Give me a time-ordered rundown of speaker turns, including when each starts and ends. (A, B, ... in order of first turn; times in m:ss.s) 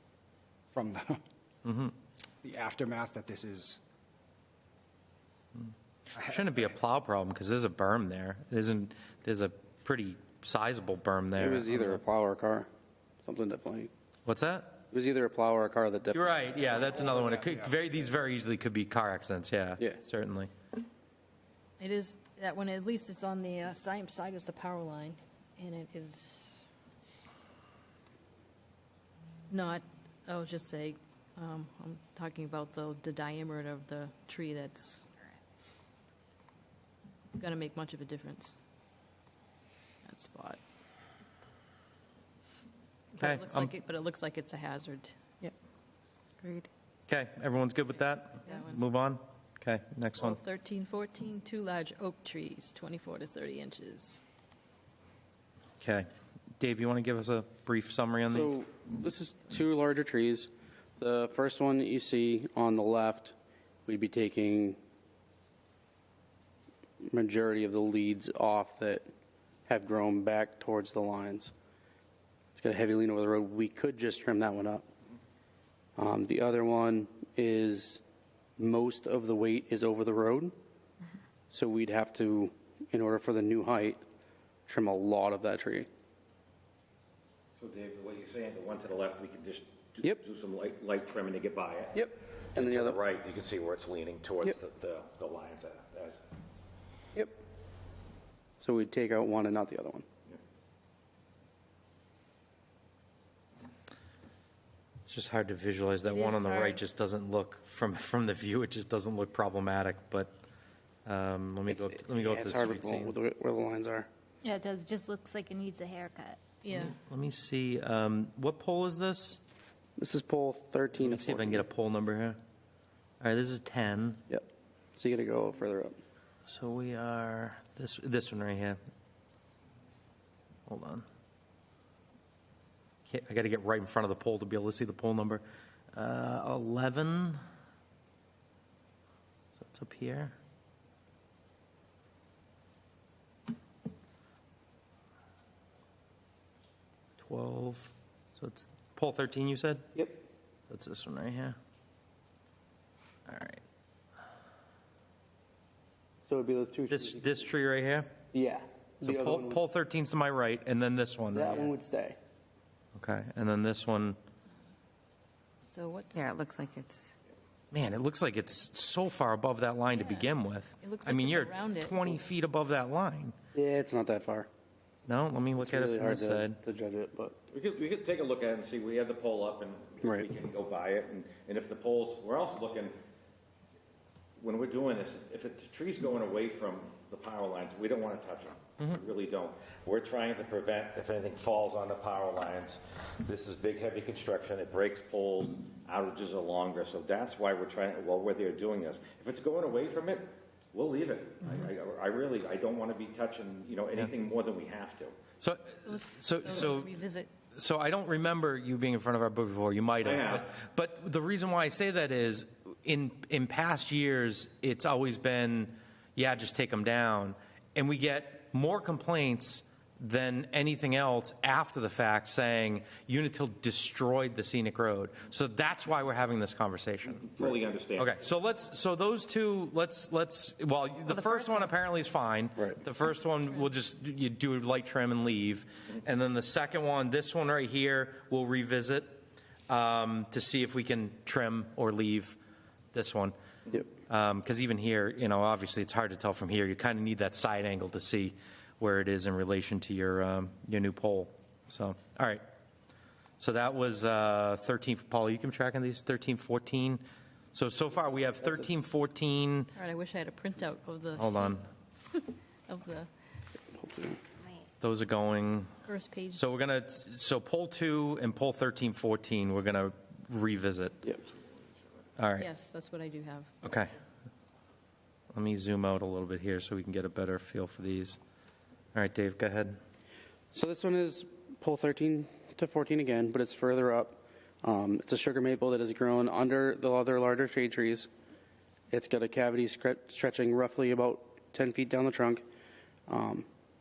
0:00.7-0:01.2 A
0:01.6-0:02.0 B
0:02.4-0:03.8 A
0:06.2-0:06.5 A
0:06.2-0:12.0 B
0:11.4-0:12.7 C
0:13.2-0:13.9 C
0:14.3-0:14.8 B
0:14.9-0:16.2 C
0:16.1-0:20.5 B
0:16.5-0:17.8 A
0:21.8-0:26.7 D
0:29.5-0:35.0 D
0:37.4-0:38.6 D
0:40.0-0:40.6 D
0:43.1-0:45.3 D
0:43.2-0:43.7 B
0:47.1-0:50.4 B
0:48.5-0:48.8 D
0:50.2-0:54.2 D
0:55.8-0:56.1 B
0:56.6-0:58.6 B
0:58.4-1:00.5 C
1:01.0-1:03.3 C
1:03.9-1:04.8 C
1:07.1-1:09.0 C
1:09.7-1:11.5 C
1:12.6-1:14.8 C
1:16.0-1:18.0 C
1:18.6-1:20.5 C
1:21.5-1:24.0 C
1:24.7-1:25.9 C
1:27.6-1:36.2 E
1:32.6-1:33.0 C
1:38.6-1:40.0 C
1:45.0-1:50.3 B
1:46.1-1:46.8 D
1:51.1-1:53.2 B
1:51.8-1:54.1 C
1:54.4-1:56.4 F
1:56.6-1:56.9 D
1:56.7-1:59.4 B
2:00.0-2:01.6 C
2:01.0-2:02.4 B
2:03.2-2:04.2 B
2:05.0-2:05.9 C
2:06.5-2:08.8 B
2:10.7-2:11.1 B
2:13.1-2:17.4 B
2:19.6-2:20.4 B
2:27.2-2:29.9 B
2:30.7-2:31.6 B
2:33.3-2:33.6 B
2:36.3-2:37.0 C
2:36.9-2:38.2 B
2:38.3-2:39.5 C
2:39.0-2:41.7 B
2:41.4-2:42.2 C
2:43.0-2:44.2 B
2:45.7-2:46.2 D
2:46.1-2:47.1 F
2:47.7-2:53.4 B
2:50.8-2:52.1 D
2:53.6-2:54.5 C
2:55.1-2:56.6 B
2:55.6-2:57.3 C
2:57.5-3:02.9 E
3:04.4-3:25.1 E
3:25.4-3:26.9 B
3:25.9-3:27.3 D
3:27.5-3:47.3 B
3:30.0-3:30.4 E
3:47.2-3:48.2 E
3:48.0-4:02.4 B
4:02.9-4:03.4 B
4:03.9-4:12.4 B
4:13.4-4:17.0 B
4:17.5-4:19.7 B
4:19.7-4:23.1 D
4:21.2-4:21.6 B
4:23.7-4:24.2 C
4:24.8-4:25.7 B
4:25.9-4:26.4 D
4:26.4-4:31.0 B
4:32.2-4:32.5 B
4:32.4-4:33.5 D
4:33.6-4:33.9 B
4:35.3-4:38.2 B
4:38.9-4:39.8 B
4:40.5-4:48.1 C
4:48.9-4:52.4 C
4:53.1-4:53.5 C